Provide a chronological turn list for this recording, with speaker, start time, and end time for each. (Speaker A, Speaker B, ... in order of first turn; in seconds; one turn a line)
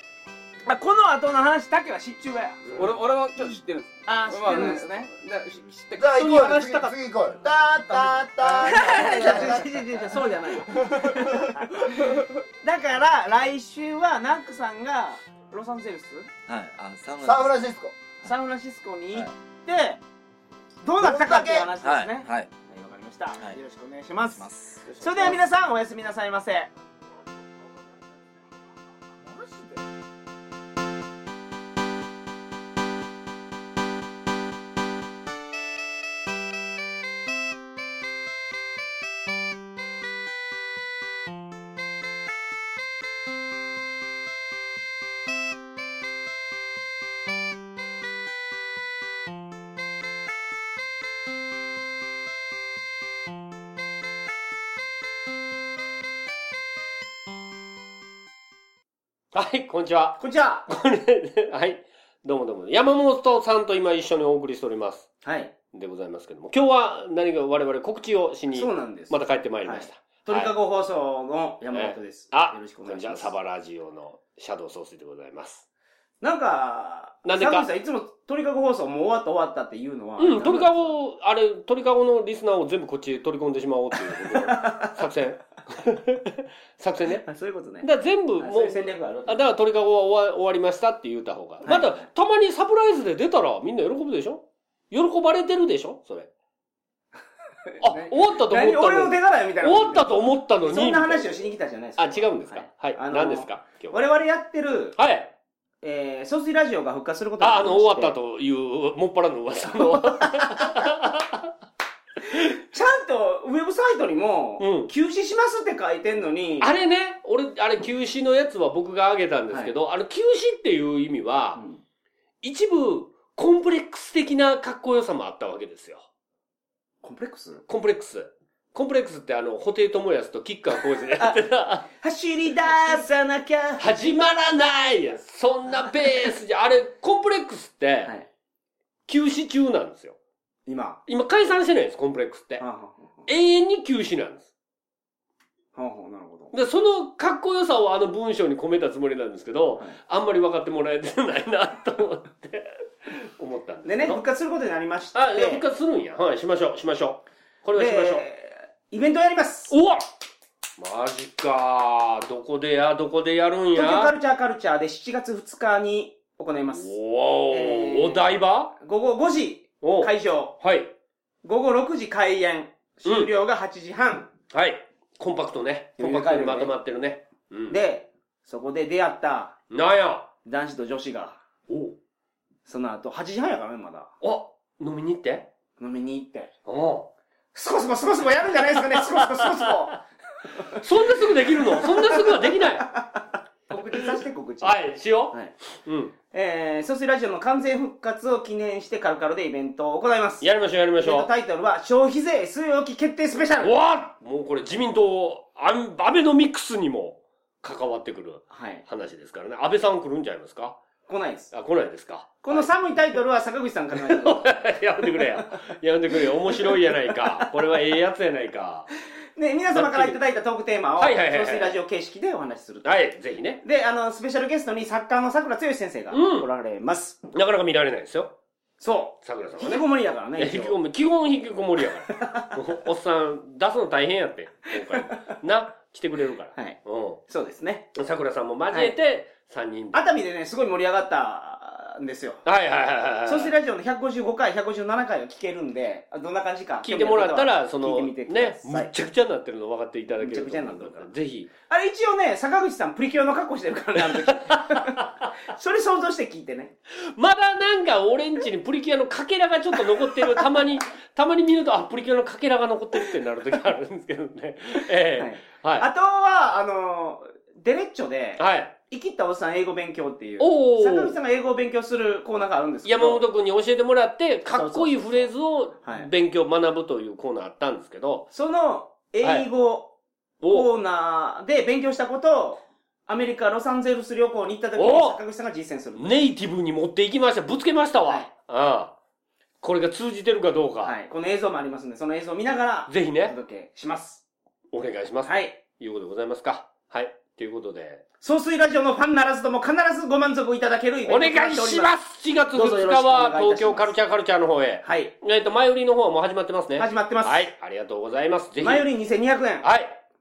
Speaker A: 0.7-5.1
Speaker B: 2.7-6.2
Speaker C: 6.0-9.9
Speaker A: 6.1-7.0
Speaker B: 8.1-9.6
Speaker A: 8.7-16.3
Speaker B: 10.7-12.3
Speaker D: 16.5-17.6
Speaker C: 17.2-18.0
Speaker A: 18.2-20.0
Speaker A: 20.8-26.7
Speaker C: 21.0-21.7
Speaker D: 21.8-22.5
Speaker D: 24.4-25.4
Speaker B: 24.9-25.4
Speaker C: 29.2-29.9
Speaker E: 59.3-65.2
Speaker A: 60.2-60.7
Speaker A: 65.2-65.5
Speaker E: 65.7-70.5
Speaker A: 68.5-73.3
Speaker E: 71.7-75.6
Speaker A: 76.2-81.0
Speaker E: 77.2-77.7
Speaker E: 80.2-87.3
Speaker A: 84.2-85.0
Speaker A: 87.1-89.5
Speaker E: 87.8-96.3
Speaker A: 91.6-92.1
Speaker E: 97.8-101.5
Speaker A: 97.8-105.0
Speaker E: 102.0-104.1
Speaker E: 105.0-105.3
Speaker A: 105.8-108.2
Speaker E: 107.4-111.5
Speaker A: 109.8-110.6
Speaker A: 112.3-116.7
Speaker E: 114.6-114.9
Speaker E: 116.6-121.6
Speaker A: 119.5-119.7
Speaker A: 121.5-121.8
Speaker E: 122.4-126.0
Speaker A: 127.0-127.6
Speaker E: 127.7-131.9
Speaker A: 131.1-131.4
Speaker A: 131.9-133.9
Speaker E: 133.8-138.1
Speaker E: 139.1-140.2
Speaker A: 140.7-141.0
Speaker E: 141.1-142.7
Speaker A: 142.6-143.3
Speaker E: 143.3-144.5
Speaker A: 145.8-146.5
Speaker E: 146.5-154.2
Speaker A: 153.8-155.6
Speaker E: 155.1-158.2
Speaker A: 157.8-159.8
Speaker E: 159.7-160.0
Speaker E: 160.8-164.2
Speaker A: 163.7-166.9
Speaker E: 166.7-168.7
Speaker A: 167.5-170.6
Speaker E: 169.8-170.9
Speaker A: 171.4-174.3
Speaker E: 173.1-173.3
Speaker E: 174.5-177.8
Speaker A: 176.0-176.8
Speaker A: 177.7-179.6
Speaker E: 179.7-180.3
Speaker A: 180.4-181.4
Speaker E: 181.7-182.0
Speaker A: 182.7-184.1
Speaker E: 184.2-185.5
Speaker A: 185.8-186.5
Speaker E: 186.7-187.1
Speaker A: 187.5-190.8
Speaker E: 188.9-189.7
Speaker E: 190.7-193.1
Speaker A: 191.4-195.6
Speaker E: 193.7-196.2
Speaker A: 196.2-203.7
Speaker E: 200.4-201.3
Speaker E: 203.6-210.8
Speaker A: 208.5-208.8
Speaker A: 211.1-211.5
Speaker E: 211.5-213.2
Speaker A: 212.4-217.5
Speaker E: 214.0-218.9
Speaker A: 219.4-222.9
Speaker E: 219.7-220.2
Speaker E: 221.0-221.8
Speaker E: 222.8-223.6
Speaker A: 223.6-227.2
Speaker E: 226.1-226.5
Speaker E: 227.3-228.4
Speaker A: 228.8-230.8
Speaker E: 229.2-237.2
Speaker A: 232.1-232.5
Speaker A: 234.8-235.3
Speaker A: 236.6-237.9
Speaker E: 237.9-240.1
Speaker A: 238.7-238.9
Speaker A: 239.9-242.4
Speaker E: 242.4-243.5
Speaker A: 243.2-248.9
Speaker E: 246.8-251.5
Speaker A: 250.2-251.1
Speaker A: 251.6-256.8
Speaker E: 254.0-255.3
Speaker E: 257.0-265.9
Speaker A: 259.8-260.5
Speaker A: 264.8-273.2
Speaker E: 268.4-268.7
Speaker E: 270.4-271.2
Speaker E: 272.9-278.3
Speaker A: 274.5-276.1
Speaker A: 278.3-286.3
Speaker E: 279.2-279.5
Speaker E: 280.4-280.7
Speaker E: 284.8-285.2
Speaker E: 286.0-289.0
Speaker E: 289.6-290.9
Speaker A: 290.8-294.2
Speaker E: 292.9-293.4
Speaker E: 294.7-298.0
Speaker A: 295.2-295.6
Speaker A: 298.2-301.9
Speaker E: 301.1-308.9
Speaker A: 302.5-304.0
Speaker A: 304.8-305.2
Speaker A: 306.8-307.5
Speaker A: 308.6-309.7
Speaker E: 309.6-310.0